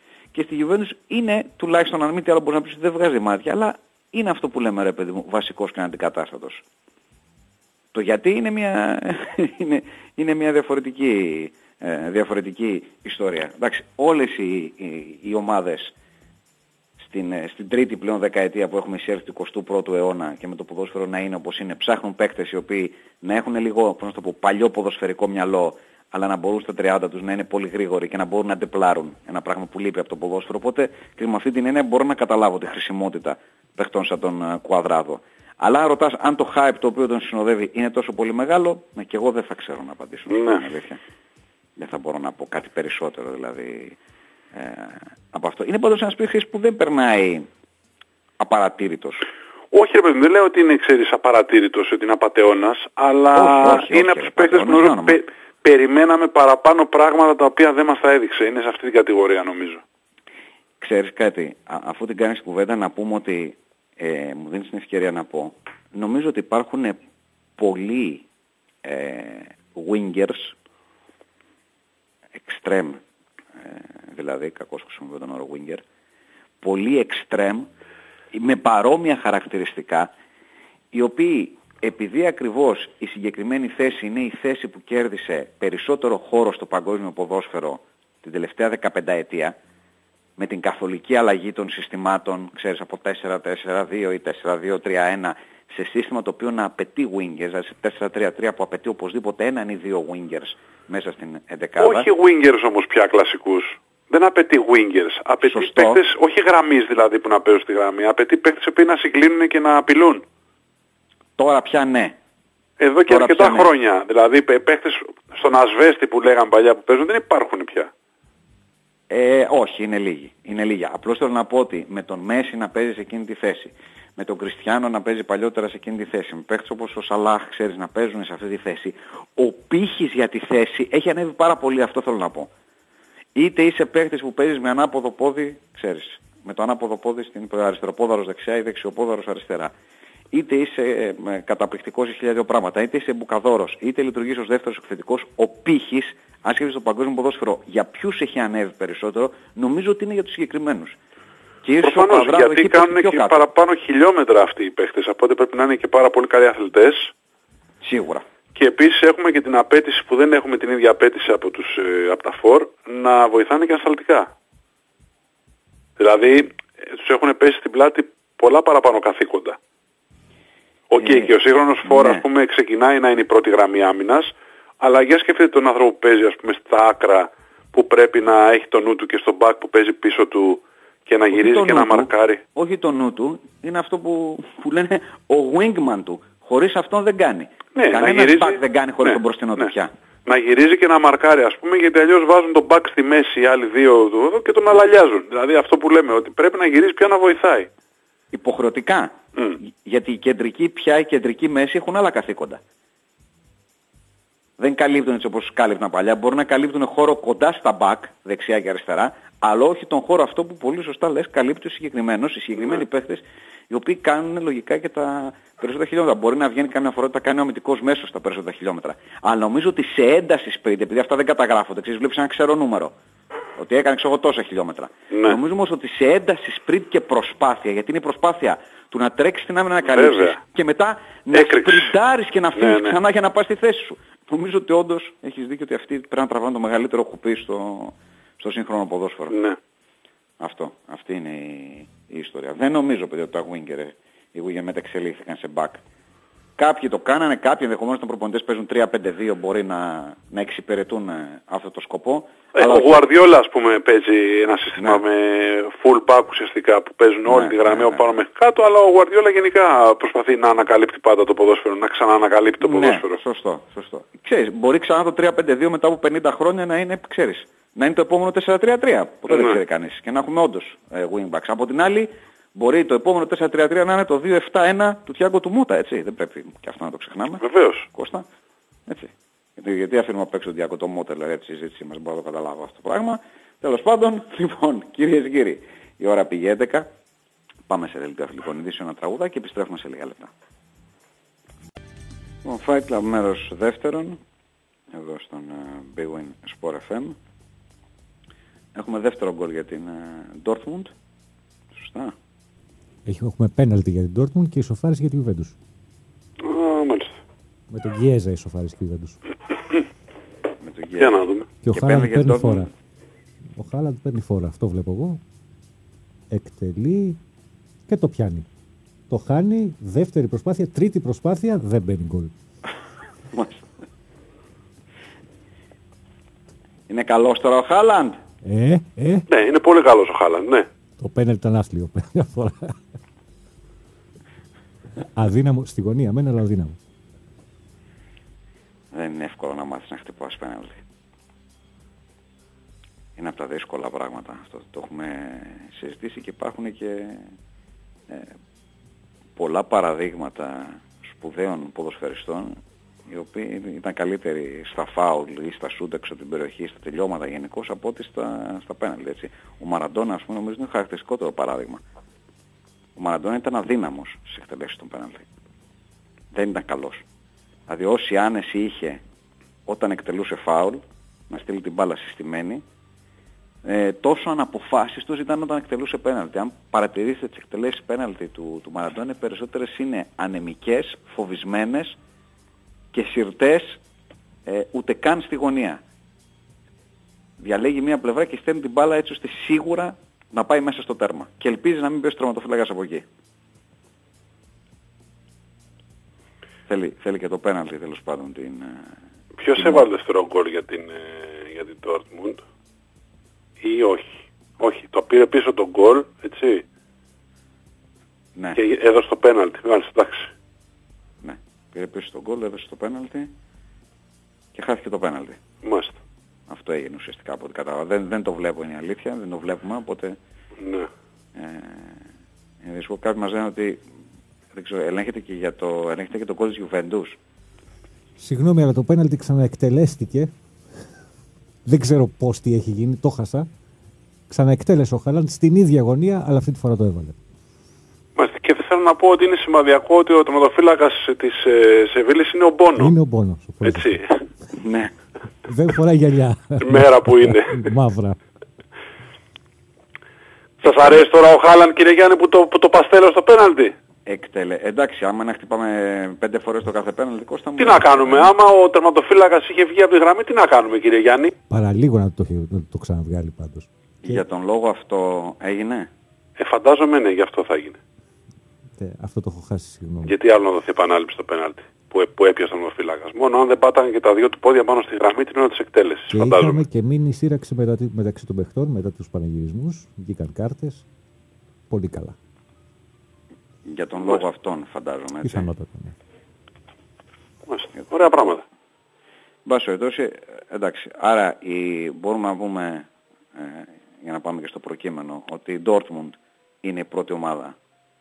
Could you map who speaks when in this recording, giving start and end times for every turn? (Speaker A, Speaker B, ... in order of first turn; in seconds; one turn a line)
Speaker A: 0.3-6.6
Speaker A: 7.9-15.9
Speaker A: 17.0-41.0
Speaker B: 40.3-40.6
Speaker A: 41.8-44.0
Speaker A: 44.5-47.5
Speaker A: 48.4-49.3
Speaker B: 49.7-59.8
Speaker A: 53.3-55.2
Speaker A: 60.8-67.0
Speaker A: 67.6-68.3
Speaker A: 68.8-70.5
Speaker A: 72.3-73.0
Speaker A: 73.6-75.8
Speaker A: 76.6-77.7
Speaker A: 78.3-80.1
Speaker A: 80.9-89.6
Speaker A: 90.4-102.1
Speaker B: 101.8-110.2
Speaker A: 105.4-106.0
Speaker A: 111.4-112.2
Speaker B: 112.8-117.9
Speaker A: 113.1-113.7
Speaker A: 119.1-132.5
Speaker A: 133.3-139.7
Speaker A: 140.3-151.0
Speaker A: 151.6-153.5
Speaker B: 151.8-157.1
Speaker A: 157.8-158.2
Speaker B: 158.6-164.3
Speaker B: 166.0-169.6
Speaker B: 170.9-182.4
Speaker A: 171.0-171.3
Speaker A: 171.8-172.2
Speaker A: 181.3-189.9
Speaker B: 187.8-189.7
Speaker B: 190.3-197.7
Speaker A: 198.3-202.6
Speaker A: 204.6-222.9
Speaker A: 223.6-239.4
Speaker B: 225.1-225.4
Speaker B: 229.9-230.4
Speaker B: 231.3-231.9
Speaker B: 232.6-233.0
Speaker B: 239.3-239.6
Speaker A: 240.4-245.8
Speaker A: 246.6-253.1
Speaker B: 252.6-263.2
Speaker A: 257.3-258.1
Speaker A: 262.6-278.3
Speaker B: 277.4-277.9
Speaker A: 278.9-286.9
Speaker A: 287.7-290.3
Speaker A: 292.4-294.2
Speaker A: 294.9-297.2
Speaker A: 298.8-300.9
Speaker A: 301.7-302.1
Speaker C: 303.1-305.6
Speaker B: 306.4-307.2
Speaker C: 307.7-309.2
Speaker A: 310.6-311.2
Speaker B: 311.0-311.5
Speaker C: 311.6-312.7
Speaker A: 311.7-312.7
Speaker C: 313.6-315.2
Speaker C: 316.3-317.2
Speaker C: 317.9-318.5
Speaker C: 319.1-322.3
Speaker A: 323.3-323.6
Speaker A: 326.9-328.2
Speaker C: 328.4-329.3
Speaker B: 329.3-330.7
Speaker C: 331.0-332.8
Speaker C: 335.0-336.8
Speaker A: 338.9-340.8
Speaker A: 343.2-347.3
Speaker A: 349.4-352.6
Speaker A: 353.1-361.8
Speaker A: 363.0-365.3
Speaker A: 366.3-367.1
Speaker A: 367.7-369.0
Speaker A: 369.7-372.6
Speaker A: 373.6-382.0
Speaker A: 382.9-383.8
Speaker A: 384.5-385.8
Speaker A: 387.4-393.1
Speaker A: 396.7-398.9
Speaker B: 399.4-402.4
Speaker A: 399.6-399.9
Speaker B: 403.6-406.6
Speaker B: 408.6-410.3
Speaker A: 411.2-413.3
Speaker A: 414.5-415.4
Speaker B: 415.6-416.0
Speaker A: 416.5-420.2
Speaker B: 420.6-420.9
Speaker A: 421.4-422.1
Speaker A: 422.6-423.8
Speaker A: 424.5-427.2
Speaker C: 428.2-430.3
Speaker C: 431.7-433.5
Speaker C: 434.3-437.2
Speaker B: 438.2-442.9
Speaker C: 442.8-444.0
Speaker B: 443.6-444.2
Speaker A: 444.5-444.9
Speaker C: 445.5-448.2
Speaker B: 446.6-447.7
Speaker B: 450.6-453.7
Speaker A: 454.1-458.3
Speaker B: 457.6-461.4
Speaker C: 461.5-464.2
Speaker A: 464.0-465.9
Speaker B: 466.4-467.8
Speaker C: 468.8-470.1
Speaker B: 470.1-476.6
Speaker C: 476.1-480.9
Speaker C: 481.7-482.2
Speaker A: 483.6-485.5
Speaker C: 485.2-485.9
Speaker B: 487.5-488.4
Speaker A: 489.5-497.6